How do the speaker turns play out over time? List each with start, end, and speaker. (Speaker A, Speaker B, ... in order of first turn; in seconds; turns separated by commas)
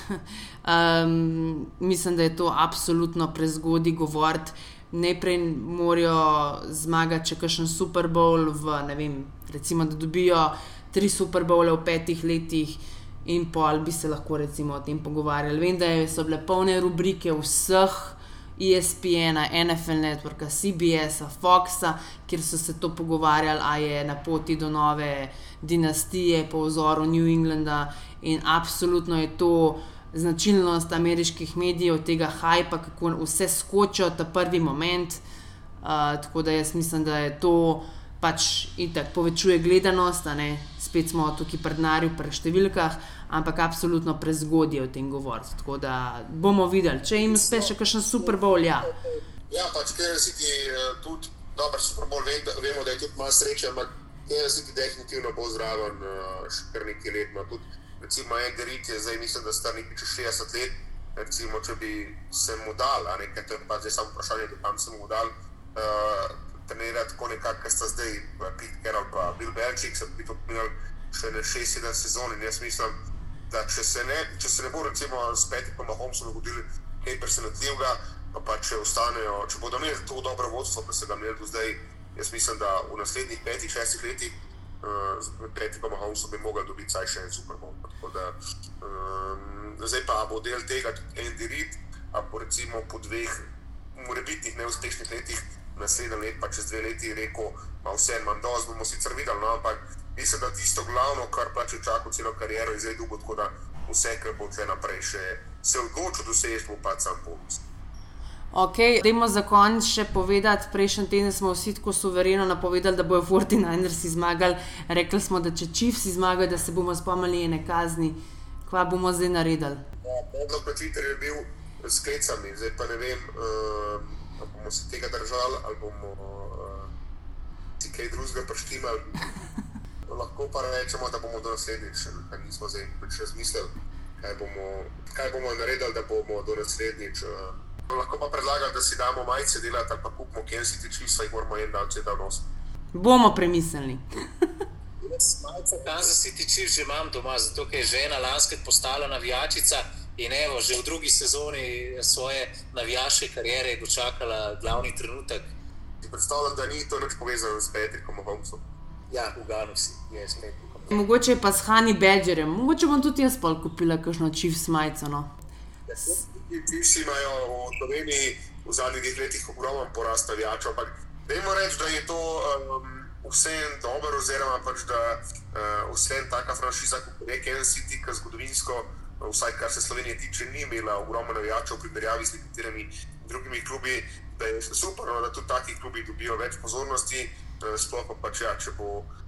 Speaker A: 0.1-35.2, Speaker A: 35.8-48.9, Speaker B: 47.2-48.3, Speaker B: 48.9-73.0, Speaker B: 73.5-107.6, Speaker A: 108.5-119.8, Speaker B: 120.0-126.9, Speaker B: 127.8-129.3, Speaker B: 130.1-142.5, Speaker A: 142.9-144.5, Speaker C: 145.0-155.5, Speaker B: 156.0-158.6, Speaker C: 159.1-160.3, Speaker B: 160.1-160.8, Speaker A: 160.9-165.3, Speaker B: 165.9-189.1